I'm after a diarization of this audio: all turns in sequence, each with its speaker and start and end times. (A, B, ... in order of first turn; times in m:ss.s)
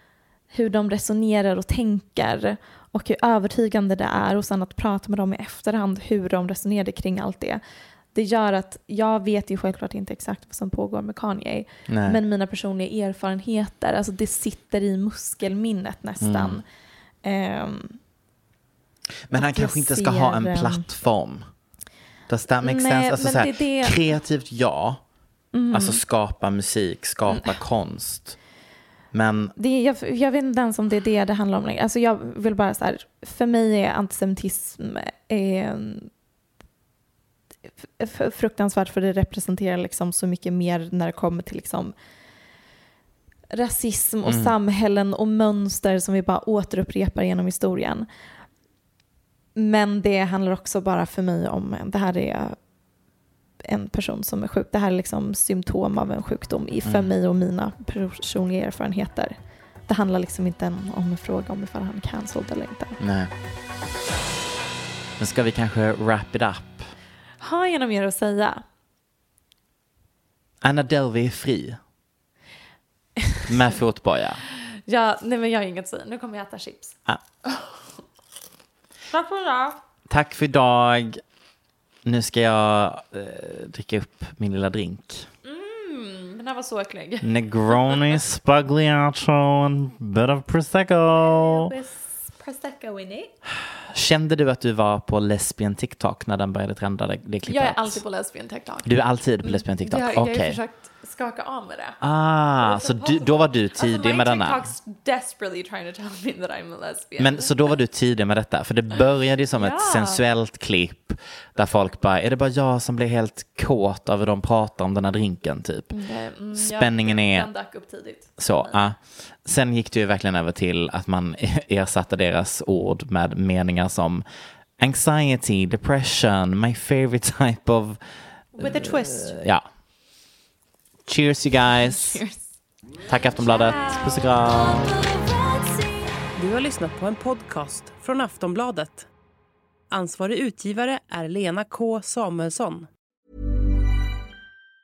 0:00.5-0:07.6 A
0:08.1-0:16.6 A
0:11.9-0:12.2 B
0:16.2-0:16.6 B
0:17.2-0:18.0 A
0:19.3-0:21.5 B
0:19.3-0:20.8 A
0:22.3-0:25.0 B
0:22.6-0:24.0 A
0:25.5-0:26.0 A
0:25.7-0:28.4 B
0:29.1-0:29.5 B
0:29.6-0:36.1 A
0:38.0-0:41.9 A
0:43.5-0:48.1 A
0:44.2-0:44.5 B
0:49.6-0:52.6 A
0:53.6-0:59.3 A
0:56.8-0:57.1 B
0:59.9-1:03.0 A
1:03.0-1:03.3 B
1:05.2-1:06.9 B
1:07.4-1:08.6 A
1:10.6-1:11.8 B
1:13.4-1:14.4 B
1:14.9-1:17.7 A
1:19.1-1:19.8 A
1:20.1-1:21.2 B
1:22.0-1:25.3 B
1:25.4-1:28.2 A
1:27.2-1:31.7 B
1:31.2-1:33.3 A
1:33.9-1:38.0 B
1:37.4-1:38.9 A
1:38.8-1:40.6 B
1:39.4-1:42.0 A
1:42.0-1:44.7 B
1:42.6-1:47.5 A
1:47.2-1:56.0 B
1:49.6-1:50.2 A
1:55.9-1:58.8 A
1:56.5-1:57.5 B
1:58.4-2:04.2 B
2:04.8-2:08.0 B
2:08.5-2:09.4 A
2:08.6-2:09.6 B
2:11.0-2:12.2 B
2:11.8-2:12.5 A
2:13.1-2:15.0 B
2:13.4-2:16.0 A
2:16.3-2:19.1 C
2:19.9-2:22.9 C